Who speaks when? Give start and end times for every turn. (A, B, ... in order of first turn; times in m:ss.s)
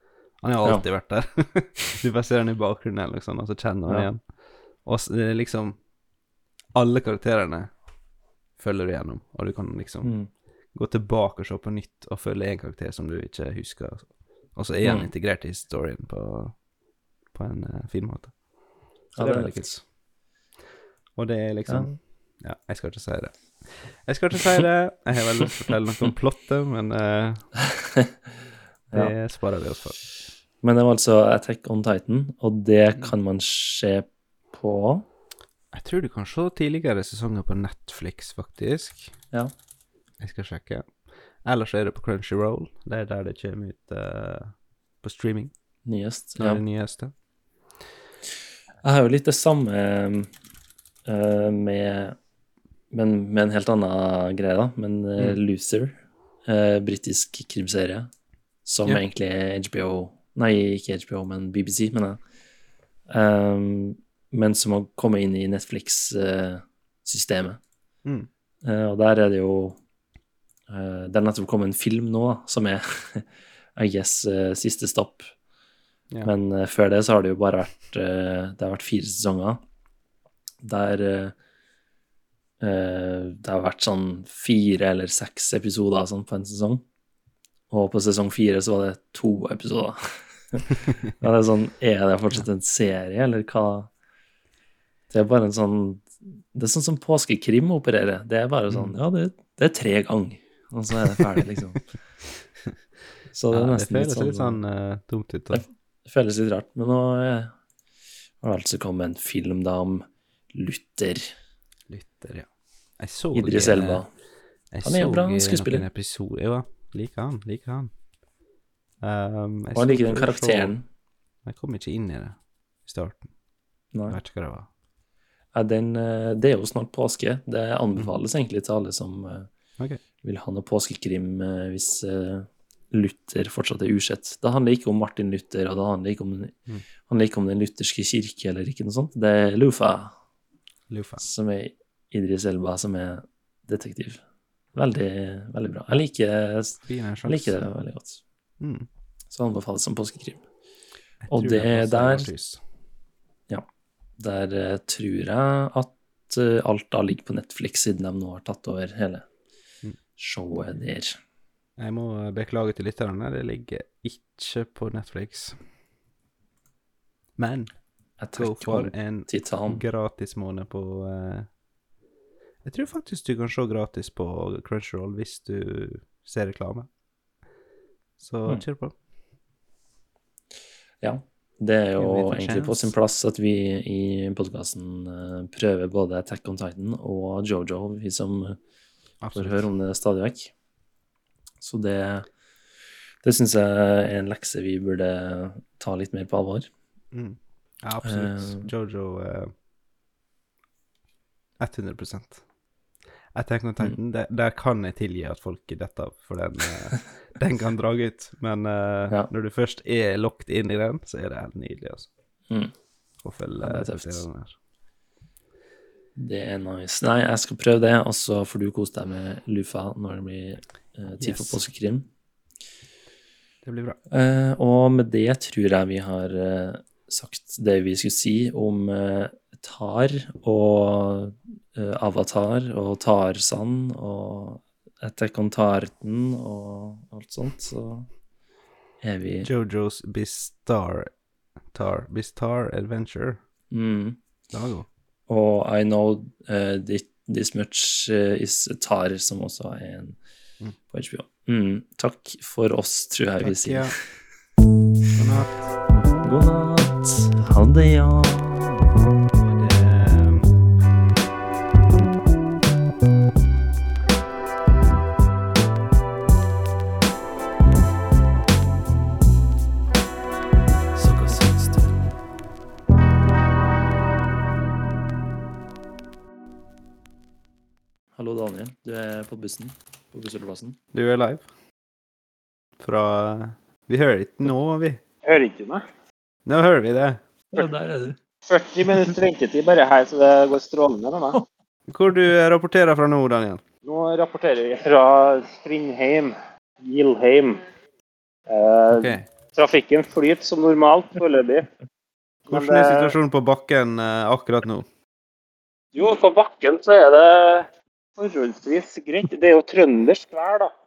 0:00.4-0:05.8 A
0:06.7-0:07.7 A
0:08.6-0:16.6 A
0:10.0-0:10.3 B
0:14.8-0:15.1 B
0:17.3-0:18.4 A
0:19.1-0:19.9 A
0:19.1-0:19.6 B
0:21.2-0:27.5 A
0:21.7-0:22.0 B
0:28.9-0:30.0 A
0:30.6-0:35.0 B
0:35.7-0:39.1 A
0:40.2-0:45.5 A
0:45.8-0:46.6 B
0:46.4-0:47.1 A
0:48.8-0:50.3 B
0:51.1-0:52.2 B
0:52.9-0:58.1 B
0:58.6-1:02.2 B
1:03.1-1:07.6 B
1:08.6-1:09.8 B
1:10.7-1:15.3 B
1:16.2-1:19.6 B
1:20.6-1:21.4 B
1:22.6-1:26.8 B
1:27.7-1:33.9 B
1:35.1-1:41.9 B
1:43.3-1:44.6 B
1:43.5-1:45.6 A
1:45.5-1:47.5 B
1:48.4-1:51.3 B
1:51.9-1:54.1 A
1:53.3-1:54.1 B
1:54.7-1:57.9 A
1:54.8-1:55.8 B
1:59.0-2:00.8 A
1:59.7-2:00.8 B
2:01.4-2:03.3 A
2:03.9-2:04.2 B
2:04.1-2:04.7 A
2:05.5-2:09.5 B
2:10.2-2:16.5 B
2:17.0-2:20.1 B
2:20.9-2:21.2 A
2:21.2-2:24.2 B
2:24.7-2:28.2 B
2:26.8-2:27.7 A
2:28.6-2:28.9 A
2:29.3-2:30.4 B
2:31.2-2:32.6 A
2:31.3-2:32.3 B
2:34.2-2:39.2 B
2:40.2-2:41.2 B
2:41.8-2:45.6 A
2:47.4-2:47.7 A
2:48.2-2:49.8 B
2:48.3-2:51.5 A
2:52.6-2:56.9 A
2:58.2-2:58.9 A
3:01.0-3:08.6 B
3:02.0-3:02.9 A
3:09.2-3:09.7 A
3:09.3-3:10.5 B
3:11.6-3:12.2 B
3:13.2-3:16.7 B
3:17.1-3:19.5 A
3:18.0-3:18.7 B
3:21.6-3:22.4 A
3:23.3-3:32.1 A
3:33.2-3:34.5 A
3:33.6-3:34.2 B
3:36.2-3:42.1 B
3:41.2-3:41.6 A
3:43.6-3:44.0 A
3:44.1-3:58.1 B
3:59.0-3:59.5 B
3:59.4-4:01.1 A
4:01.7-4:03.4 A
4:03.7-4:04.2 B
4:04.5-4:04.9 A
4:05.3-4:10.2 B
4:10.9-4:14.0 B
4:13.4-4:14.0 A
4:15.2-4:15.7 A
4:16.2-4:18.8 B
4:19.4-4:20.5 A
4:30.9-4:32.0 B
4:38.2-4:40.8 B
4:40.9-4:41.4 A
4:42.8-4:45.0 A
4:45.2-4:45.8 C
4:46.4-4:47.2 A
4:47.5-4:48.2 B
4:48.5-4:51.4 C
4:51.9-4:53.6 A
4:53.8-4:57.6 C
4:58.5-5:01.7 C
4:58.9-4:59.2 A
5:02.4-5:03.2 C
5:02.5-5:04.9 A
5:05.9-5:10.7 C